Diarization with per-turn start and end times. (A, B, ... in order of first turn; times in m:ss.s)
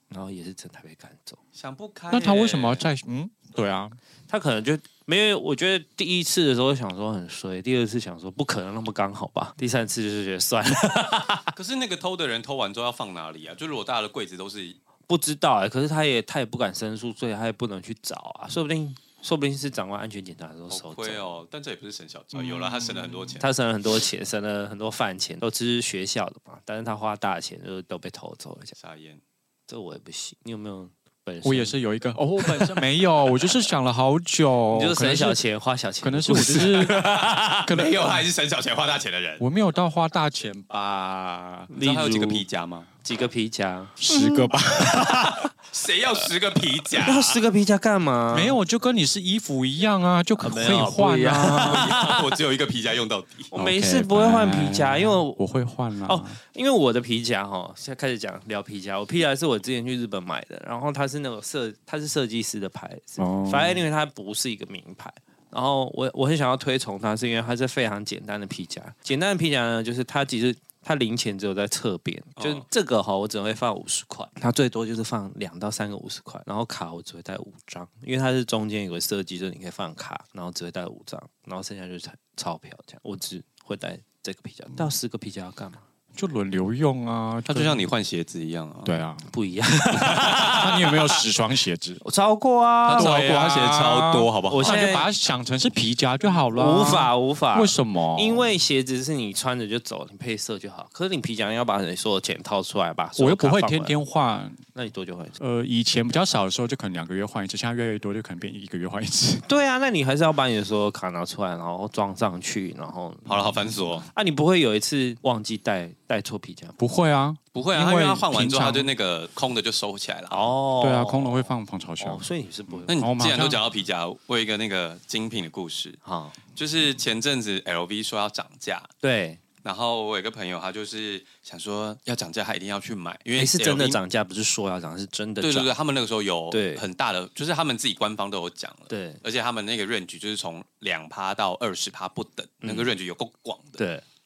0:00.1-0:01.4 A
0:01.5-0:02.8 B
0:02.1-0:04.0 C
0:04.3-0:11.5 A
0:11.5-0:14.8 B
0:15.1-0:21.2 A
0:20.7-0:23.5 B
0:22.3-0:23.3 C
0:23.4-0:28.8 A
0:28.8-0:29.2 B
0:29.7-0:31.8 A
0:31.4-0:35.4 C
0:32.4-0:32.7 A
0:34.7-0:37.7 A
0:36.0-0:37.1 C
0:36.5-0:39.4 B
0:37.6-0:38.2 C
0:39.4-0:41.7 C
0:41.7-0:42.4 A
0:41.8-0:42.9 B
0:43.0-0:45.5 A
0:44.0-0:45.5 C
0:45.7-0:47.4 B
0:47.0-0:48.6 A
0:48.3-0:51.9 C
0:50.4-0:52.2 A
0:51.6-0:53.5 B
0:53.5-0:55.4 A
0:53.5-0:56.4 C
0:56.0-1:25.8 A
1:03.2-1:03.8 C
1:12.4-1:12.6 B
1:26.1-1:27.9 C
1:27.5-1:29.0 B
1:28.8-1:29.2 C
1:29.2-1:31.0 A
1:30.0-1:30.9 B
1:30.4-1:32.0 C
1:32.0-1:33.2 A
1:32.9-1:34.8 B
1:32.9-1:38.5 C
1:34.5-1:35.1 A
1:36.5-1:44.0 A
1:43.2-1:44.6 C
1:44.7-1:45.4 A
1:45.4-1:49.4 C
1:49.4-1:53.5 A
1:53.3-1:54.1 B
1:54.1-1:56.8 A
1:56.8-1:58.9 C
1:57.5-2:00.5 B
2:00.3-2:02.9 A
2:00.8-2:03.6 C
2:02.9-2:06.0 B
2:06.0-2:06.4 A
2:06.5-2:08.9 B
2:09.0-2:09.4 A
2:09.6-2:14.0 B
2:13.4-2:15.7 A
2:15.4-2:23.8 B
2:16.5-2:16.8 A
2:18.9-2:19.2 A
2:22.6-2:22.9 A
2:23.8-2:24.0 A